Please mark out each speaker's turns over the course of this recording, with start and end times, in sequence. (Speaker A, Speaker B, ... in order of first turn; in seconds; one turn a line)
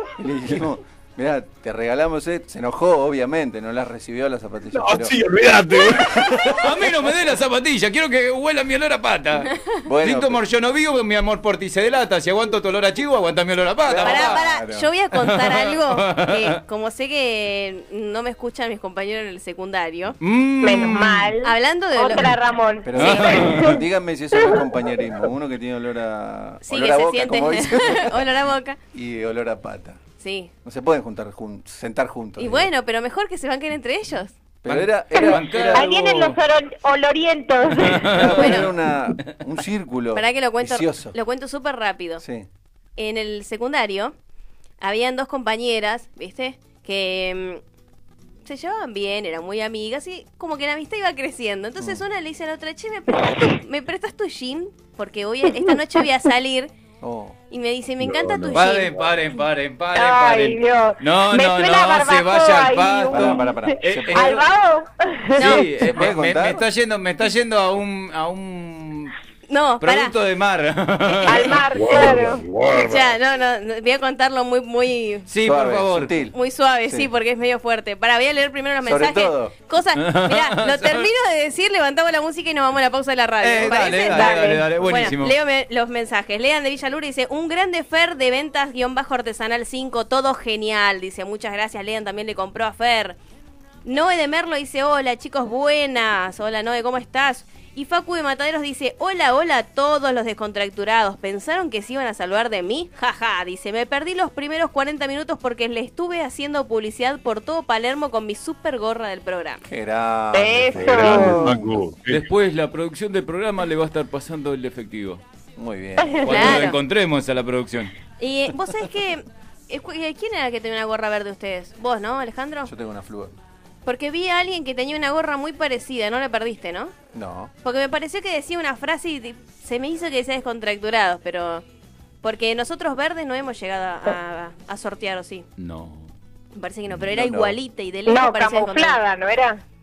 Speaker A: 0.2-5.1
Speaker B: 4.7-6.7
Speaker C: 6.6-9.5
Speaker A: 9.9-10.4
Speaker C: 10.0-14.4
Speaker A: 13.8-14.9
Speaker D: 14.0-20.1
Speaker C: 15.2-16.6
Speaker C: 20.2-21.3
Speaker E: 20.6-23.8
Speaker D: 21.4-22.3
Speaker A: 22.8-28.2
Speaker C: 22.9-23.7
Speaker E: 24.4-24.6
Speaker D: 26.6-28.8
Speaker A: 28.9-30.0
Speaker D: 30.2-30.5
Speaker A: 30.6-32.7
Speaker D: 32.4-34.3
Speaker A: 34.6-36.3
Speaker C: 34.6-35.9
Speaker E: 35.7-38.2
Speaker C: 37.8-38.6
Speaker A: 38.0-41.1
Speaker D: 38.4-38.7
Speaker D: 40.1-42.2
Speaker A: 42.2-42.5
Speaker D: 43.0-44.1
Speaker D: 44.8-47.6
Speaker D: 48.4-56.7
Speaker E: 53.2-53.5
Speaker A: 57.0-57.4
Speaker D: 57.5-58.9
Speaker B: 58.0-59.0
Speaker C: 58.5-64.4
Speaker E: 59.9-65.6
Speaker A: 63.1-64.4
Speaker C: 65.4-69.1
Speaker D: 65.4-65.7
Speaker A: 65.8-66.6
Speaker D: 69.5-70.1
Speaker C: 69.8-72.2
Speaker D: 71.1-71.5
Speaker E: 71.2-72.4
Speaker B: 71.8-73.1
Speaker D: 72.6-75.3
Speaker C: 75.3-76.1
Speaker A: 75.4-76.3
Speaker D: 76.3-93.2
Speaker A: 78.8-79.5
Speaker C: 80.0-81.1
Speaker C: 83.4-85.3
Speaker E: 83.7-84.7
Speaker D: 93.8-109.6
Speaker A: 109.7-111.7
Speaker E: 110.3-111.5
Speaker B: 110.7-112.2
Speaker C: 112.1-115.2
Speaker A: 115.6-116.7
Speaker E: 116.1-116.4
Speaker C: 116.2-117.9
Speaker D: 116.3-116.8
Speaker D: 118.2-122.7
Speaker A: 122.6-123.3
Speaker D: 123.8-126.9
Speaker A: 127.1-127.5
Speaker D: 127.6-131.6
Speaker D: 132.2-135.4
Speaker C: 135.6-136.1
Speaker D: 136.5-139.0
Speaker A: 136.9-137.6
Speaker E: 138.1-139.6